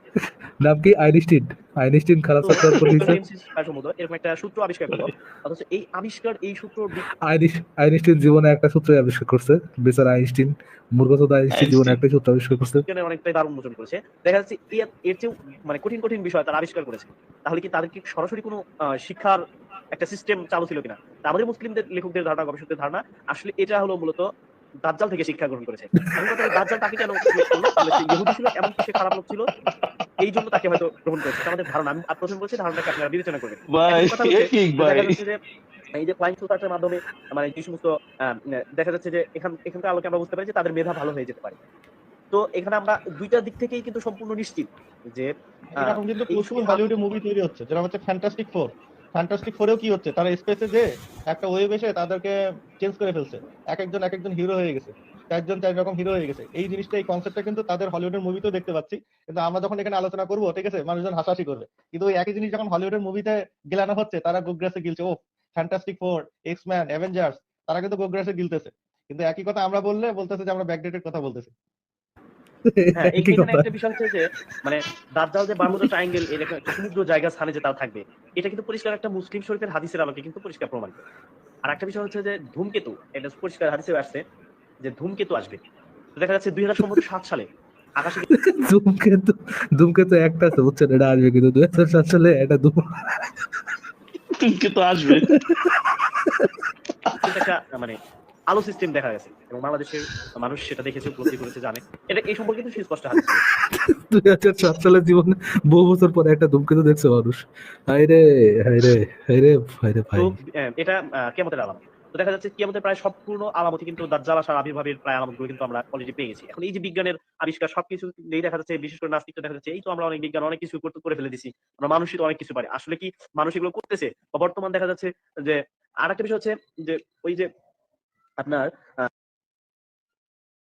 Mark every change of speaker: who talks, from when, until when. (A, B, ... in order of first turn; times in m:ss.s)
0:00.2-0:03.2 A
0:02.4-0:07.0 B
0:07.2-0:12.8 A
0:11.5-0:12.0 C
0:12.9-0:24.3 B
0:24.8-0:29.5 B
0:30.2-0:35.4 B
0:33.7-0:35.1 C
0:35.9-0:41.6 B
0:42.3-0:46.8 B
0:45.8-1:11.5 D
1:12.7-1:13.7 A
1:13.0-1:21.0 B
1:21.7-1:24.2 B
1:24.8-1:25.6 B
1:26.2-1:27.5 B
1:28.0-1:28.3 B
1:28.3-1:33.7 A
1:34.4-1:35.3 C
1:35.1-1:36.7 A
1:37.2-1:38.0 B
1:38.5-1:43.4 B
1:43.6-1:50.4 A
1:50.2-2:07.5 B
2:08.4-2:09.1 B